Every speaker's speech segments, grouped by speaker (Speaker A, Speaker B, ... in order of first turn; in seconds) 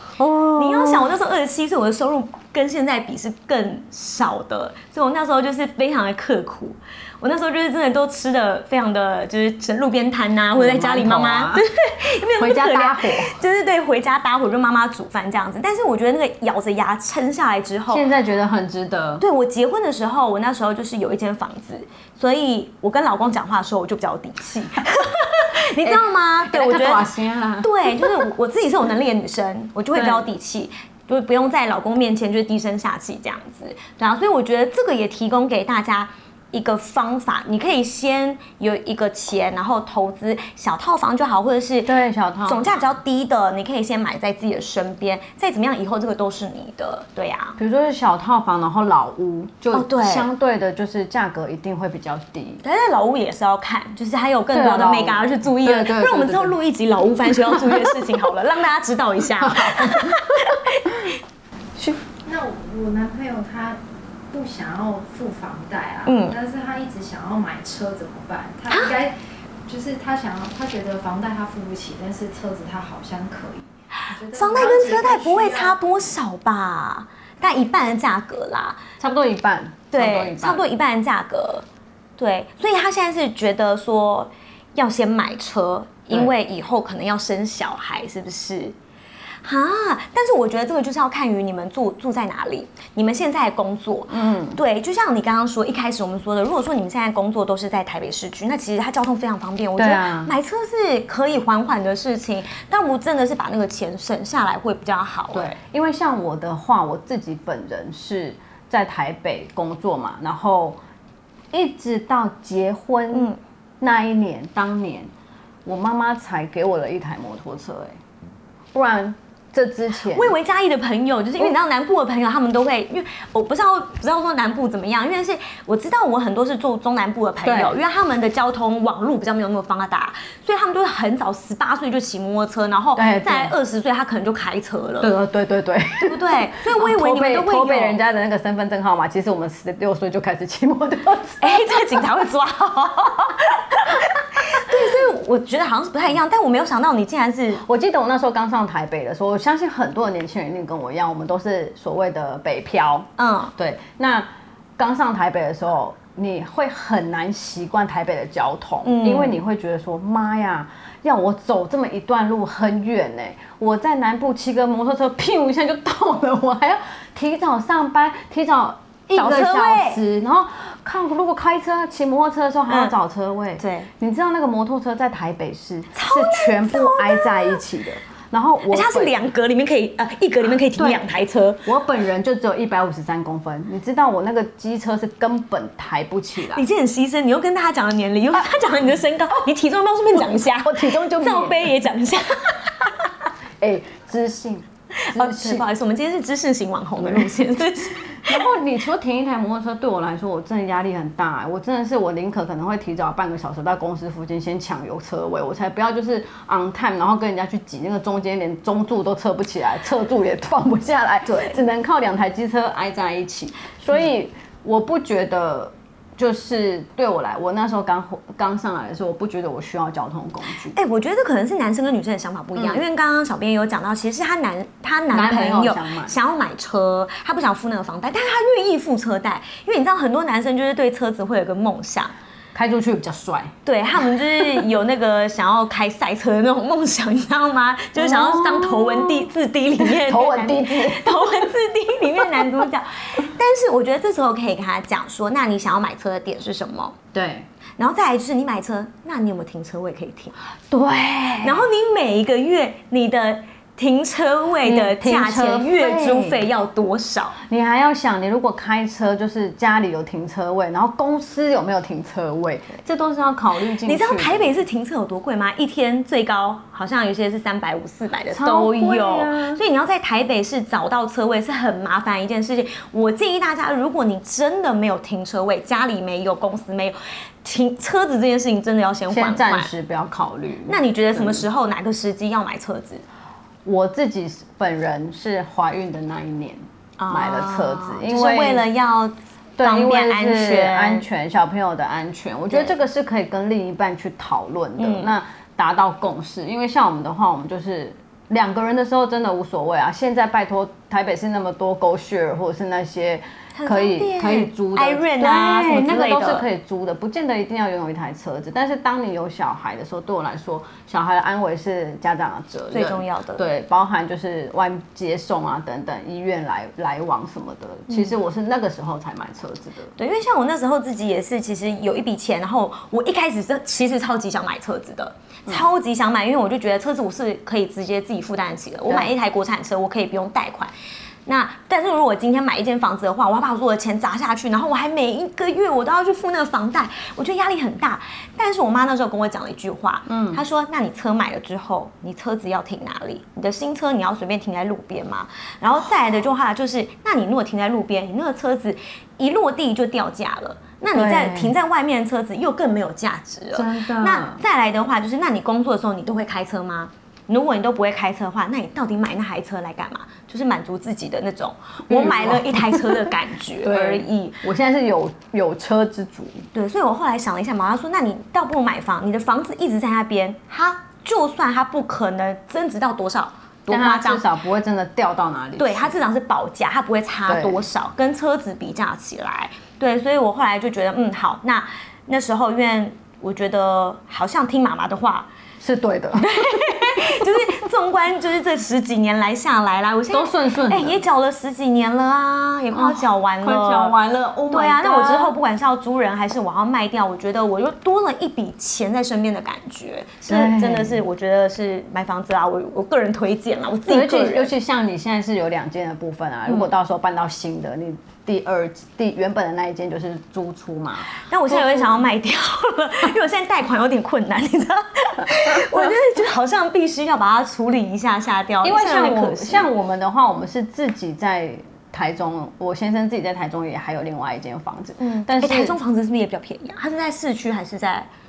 Speaker A: 0.2-1.1, 10.5-11.6, 12.4-13.3, 17.9-19.2, 25.8-28.2, 29.9-30.3, 41.8-42.9, 47.6-52.6, 54.5-56.5, 57.2-57.7, 59.4-61.1, 79.0-80.7, 94.1-94.6, 99.8-100.3, 105.3-110.8, 111.5-115.1, 115.6-118.0, 118.7-120.3, 127.4-127.7, 132.9-133.5, 135.0-141.8, 144.4-144.7, 147.6-179.2, 180.7-181.1, 181.6-186.6, 190.6-191.7, 193.6-195.6, 197.0-197.3, 198.1-220.8, 222.6-222.8, 225.1-226.1, 232.5-233.5, 237.9-241.5, 247.1-247.4, 250.7-251.7, 254.6-256.4, 257.4-264.5, 268.3-269.6, 279.1-281.4, 283.6-288.6, 289.6-319.9, 340.1-340.4, 350.9-351.5, 353.5-354.4, 361.9-366.4, 373.7-375.9, 377.3-377.6, 385.6-387.4, 390.1-391.0, 392.7-395.3, 400.3-401.0, 403.9-412.0, 415.5-415.9, 418.6-425.8
Speaker B: 0.6-18.0, 19.2-47.6, 49.7-50.3, 52.6-61.1, 66.0-66.4, 68.7-68.9, 74.3-78.8, 79.9-81.6, 82.2-88.7, 89.4-105.6, 113.1-113.4, 120.1-135.1, 136.0-138.0, 141.4-147.6, 153.2-153.5, 158.8-159.3, 169.1-170.0, 173.6-173.9, 175.9-177.6, 178.7-181.6, 186.5-192.9, 194.9-198.4, 211.3-211.6, 220.7-232.1, 233.7-247.0, 247.8-250.3, 251.4-257.4, 263.8-279.7, 280.7-283.0, 287.0-291.0, 294.8-295.1, 303.5-306.4, 312.7-313.4, 320.0-330.7, 331.2-364.4, 366.5-374.2, 375.6-385.3, 386.2-393.9, 394.5-404.5, 411.1-419.7, 425.0-428.1
Speaker C: 62.2-63.8, 64.3-75.8